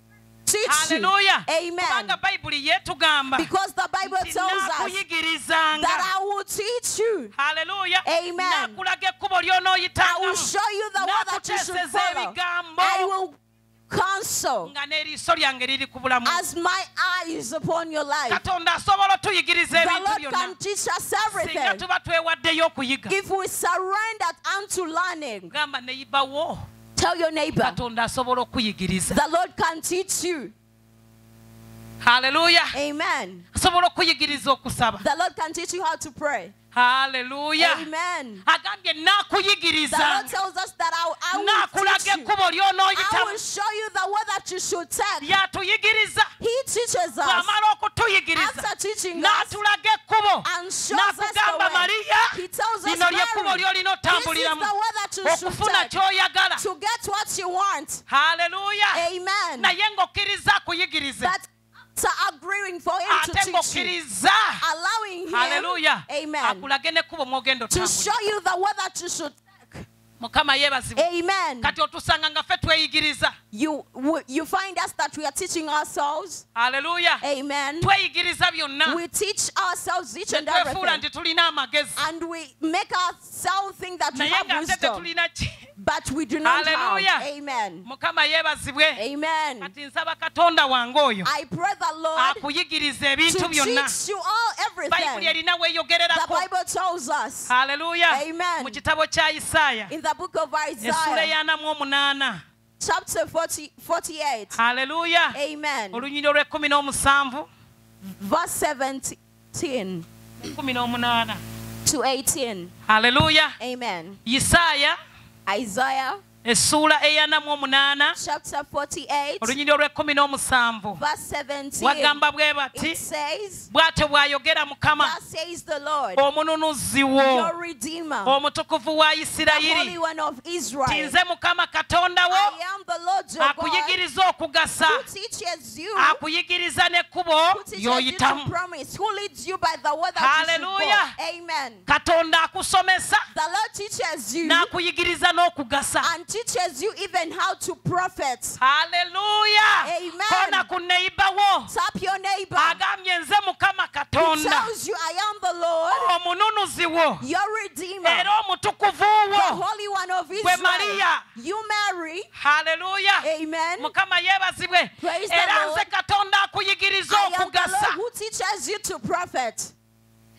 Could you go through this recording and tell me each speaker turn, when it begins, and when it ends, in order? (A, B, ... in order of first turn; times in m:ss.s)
0:00.5-0:02.2 A
0:00.7-0:03.5 B
0:03.4-0:05.0 A
0:04.0-0:06.1 B
0:05.8-0:07.3 A
0:07.4-0:13.1 B
0:08.0-0:08.8 A
0:10.0-0:13.4 A
0:13.9-0:14.7 A
0:14.6-0:16.4 B
0:16.2-0:18.4 A
0:18.3-0:20.6 B
0:19.7-0:21.8 A
0:21.2-0:23.2 B
0:23.1-0:25.5 A
0:25.5-0:26.7 B
0:27.0-0:27.8 A
0:27.6-0:29.2 B
0:29.1-0:30.5 A
0:32.0-0:32.7 B
0:32.7-0:33.4 A
0:33.5-0:35.0 B
0:35.0-0:36.5 A
0:36.7-0:37.9 B
0:37.6-0:38.5 A
0:38.4-0:40.3 B
0:39.9-0:42.3 A
0:41.3-0:43.4 B
0:42.9-0:45.4 A
0:45.2-0:46.3 B
0:46.4-0:47.5 A
0:47.2-0:54.7 B
0:48.4-0:49.6 A
0:50.4-0:56.0 A
0:55.2-0:56.6 B
0:56.6-0:58.0 A
0:58.1-0:59.0 B
0:58.9-0:59.7 A
0:59.6-1:01.3 B
1:01.2-1:03.9 A
1:03.1-1:04.6 B
1:04.6-1:06.7 A
1:05.3-1:08.2 B
1:07.7-1:09.9 A
1:10.2-1:11.1 B
1:11.0-1:11.8 A
1:11.6-1:13.4 B
1:13.5-1:16.4 A
1:16.6-1:17.2 B
1:17.2-1:17.9 A
1:17.8-1:19.0 B
1:18.8-1:21.0 A
1:20.3-1:22.0 B
1:22.0-1:25.1 A
1:24.1-1:25.7 B
1:25.8-1:27.9 A
1:26.4-1:27.3 B
1:27.8-1:29.0 B
1:29.0-1:29.7 A
1:29.6-1:31.3 B
1:31.2-1:32.4 A
1:32.2-1:33.9 B
1:33.3-1:35.4 A
1:34.9-1:36.5 B
1:36.1-1:37.5 A
1:37.5-1:39.9 B
1:38.1-1:38.8 A
1:39.9-1:41.3 A
1:40.8-1:42.4 B
1:42.8-1:44.6 A
1:44.6-1:45.4 B
1:45.3-1:46.1 A
1:45.9-1:47.5 B
1:48.2-1:50.1 A
1:50.4-1:51.4 B
1:51.8-1:52.7 A
1:52.9-1:53.6 B
1:53.6-1:54.2 A
1:54.2-1:55.0 B
1:55.5-1:56.2 A
1:56.4-1:58.2 B
1:58.2-1:59.6 A
1:59.4-2:01.0 B
2:01.0-2:02.2 A
2:01.8-2:03.0 B
2:02.7-2:03.7 A
2:03.7-2:05.2 B
2:05.0-2:06.2 A
2:06.2-2:07.5 B
2:07.2-2:08.4 A
2:08.2-2:10.0 B
2:09.5-2:11.2 A
2:10.9-2:12.6 B
2:12.3-2:14.0 A
2:13.4-2:15.0 B
2:14.8-2:16.2 A
2:16.0-2:18.5 B
2:17.5-2:21.9 A
2:20.2-2:21.1 B
2:21.9-2:23.2 B
2:23.3-2:24.7 A
2:24.4-2:26.1 B
2:26.0-2:28.6 A
2:28.6-2:31.7 B
2:29.8-2:30.7 A
2:31.7-2:32.8 A
2:32.6-2:34.7 B
2:34.2-2:36.1 A
2:35.9-2:37.2 B
2:37.2-2:38.3 A
2:38.0-2:39.6 B
2:39.3-2:42.3 A
2:40.4-2:41.2 B
2:42.4-2:43.3 B
2:43.2-2:43.9 A
2:43.8-2:48.0 B
2:45.0-2:45.9 A
2:47.1-2:49.7 A